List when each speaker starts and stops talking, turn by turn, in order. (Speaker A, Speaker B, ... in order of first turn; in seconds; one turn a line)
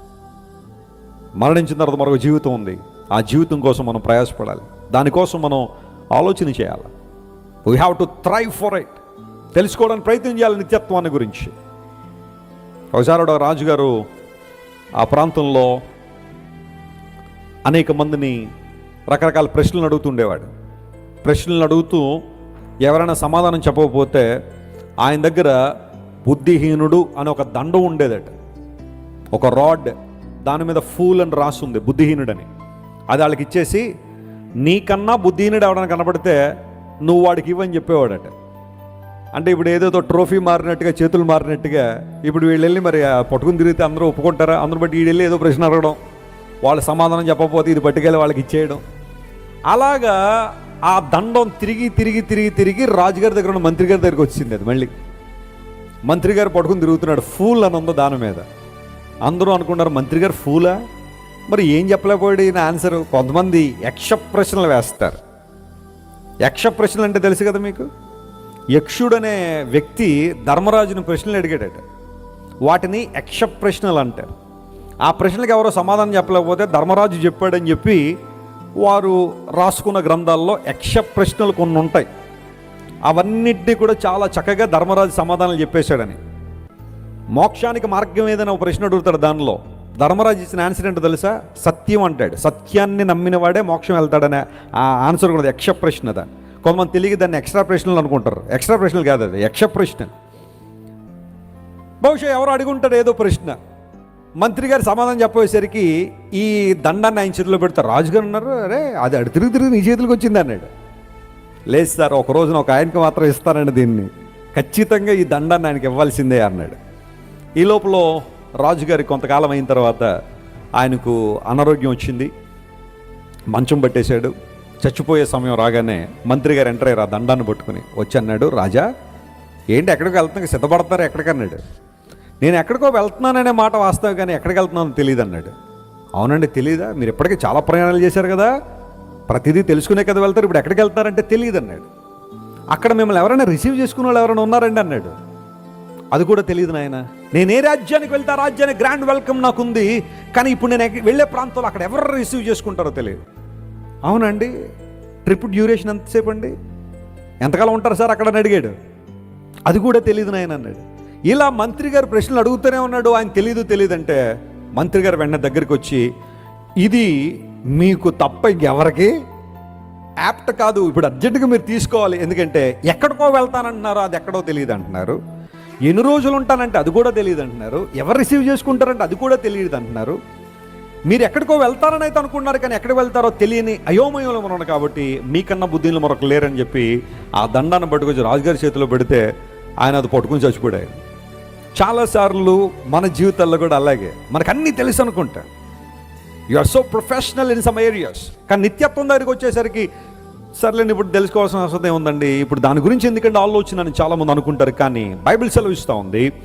Speaker A: 1.4-6.9
Speaker A: 7.6-9.0
Speaker A: 9.5-11.5
Speaker A: 12.9-14.0
Speaker A: 15.0-15.8
Speaker A: 17.6-18.4
Speaker A: 19.1-20.5
Speaker A: 21.2-22.2
Speaker A: 22.8-24.2
Speaker A: 25.0-25.6
Speaker A: 26.2-28.3
Speaker A: 29.3-32.5
Speaker A: 33.1-33.9
Speaker A: 34.6-36.4
Speaker A: 37.0-38.3
Speaker A: 39.3-46.0
Speaker A: 46.6-48.8
Speaker A: 49.7-54.9
Speaker A: 56.1-58.5
Speaker A: 59.2-60.8
Speaker A: 61.5-65.2
Speaker A: 66.4-67.9
Speaker A: 68.7-71.8
Speaker A: 72.7-74.3
Speaker A: 75.0-78.0
Speaker A: 78.8-82.1
Speaker A: 83.1-86.2
Speaker A: 87.3-100.1
Speaker A: 102.0-103.6
Speaker A: 104.4-110.7
Speaker A: 111.7-116.8
Speaker A: 117.6-120.1
Speaker A: 120.8-122.3
Speaker A: 123.5-128.9
Speaker A: 129.7-131.6
Speaker A: 132.4-135.5
Speaker A: 136.2-138.5
Speaker A: 139.3-141.9
Speaker A: 142.7-145.1
Speaker A: 146.1-153.2
Speaker A: 154.1-154.5
Speaker A: 155.2-156.6
Speaker A: 157.4-158.7
Speaker A: 159.7-164.2
Speaker A: 164.8-166.1
Speaker A: 166.8-169.1
Speaker A: 170.2-175.2
Speaker A: 175.9-180.2
Speaker A: 181.1-189.3
Speaker A: 189.8-190.9
Speaker A: 191.8-195.5
Speaker A: 196.5-199.9
Speaker A: 200.6-206.3